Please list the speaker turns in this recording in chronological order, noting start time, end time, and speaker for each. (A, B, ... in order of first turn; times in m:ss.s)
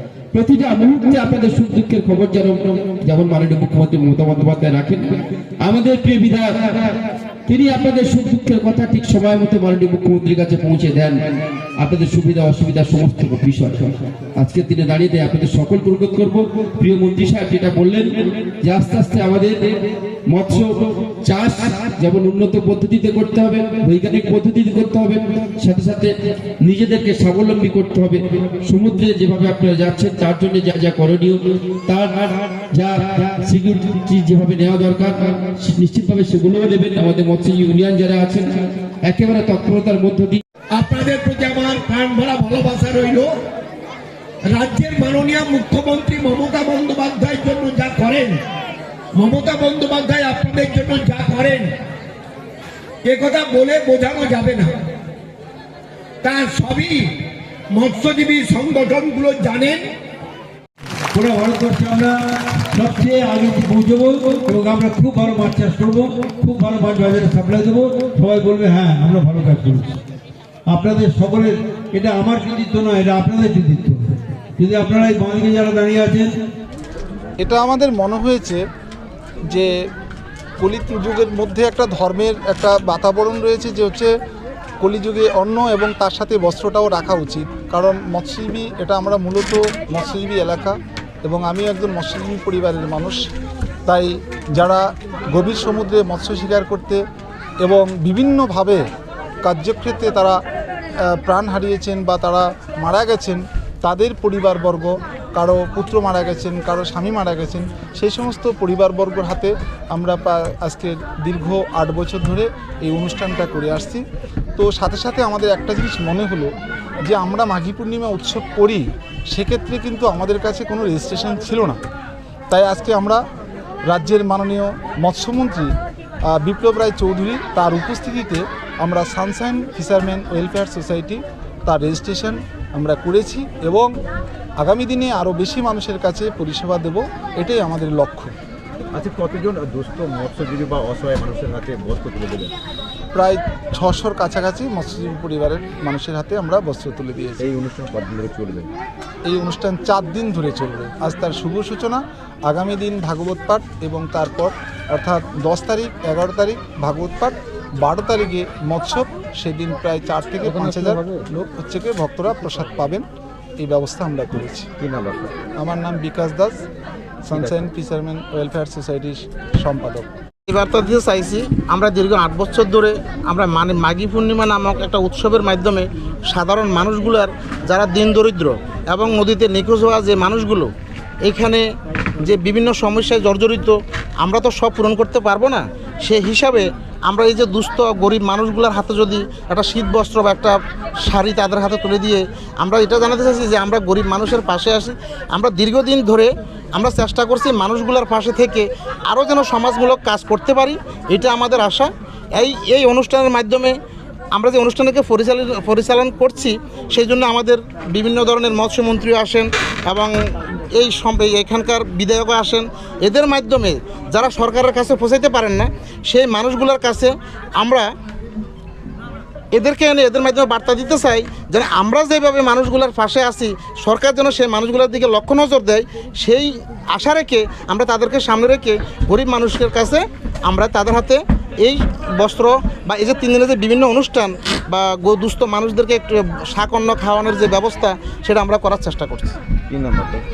0:00.3-0:11.2 A
0:11.8-0:19.6 A
0:20.3-0:38.5 A
0:39.1-0:40.4 A
0:40.8-0:43.3 B
0:44.5-0:48.4 B
0:49.2-0:51.7 B
0:53.0-0:54.7 B
0:56.2-0:57.1 B
0:57.7-0:59.9 B
1:01.1-1:10.0 C
1:10.7-1:16.4 C
1:17.4-1:18.6 D
1:20.6-1:24.1 D
1:24.8-1:33.2 D
1:33.9-1:37.0 D
1:37.6-1:38.8 D
1:39.4-1:40.4 D
1:41.1-1:54.0 D
1:54.6-1:56.5 D
1:57.1-2:01.8 D
2:02.5-2:03.2 D
2:03.9-2:05.7 D
2:06.3-2:13.9 D
2:14.6-2:18.3 D
2:18.9-2:22.5 E
2:23.2-2:27.4 D
2:27.4-2:28.7 E
2:29.3-2:43.0 D
2:40.5-2:41.2 E
2:43.6-2:44.7 D
2:44.8-2:45.4 E
2:45.6-2:46.6 D
2:47.3-2:50.1 D
2:47.4-2:47.6 E
2:50.5-3:00.7 F
3:01.2-3:01.7 F
3:02.2-3:23.8 F
3:24.3-3:30.1 F
3:30.7-3:37.9 F
3:39.5-3:59.4 F
3:59.7-4:00.2 E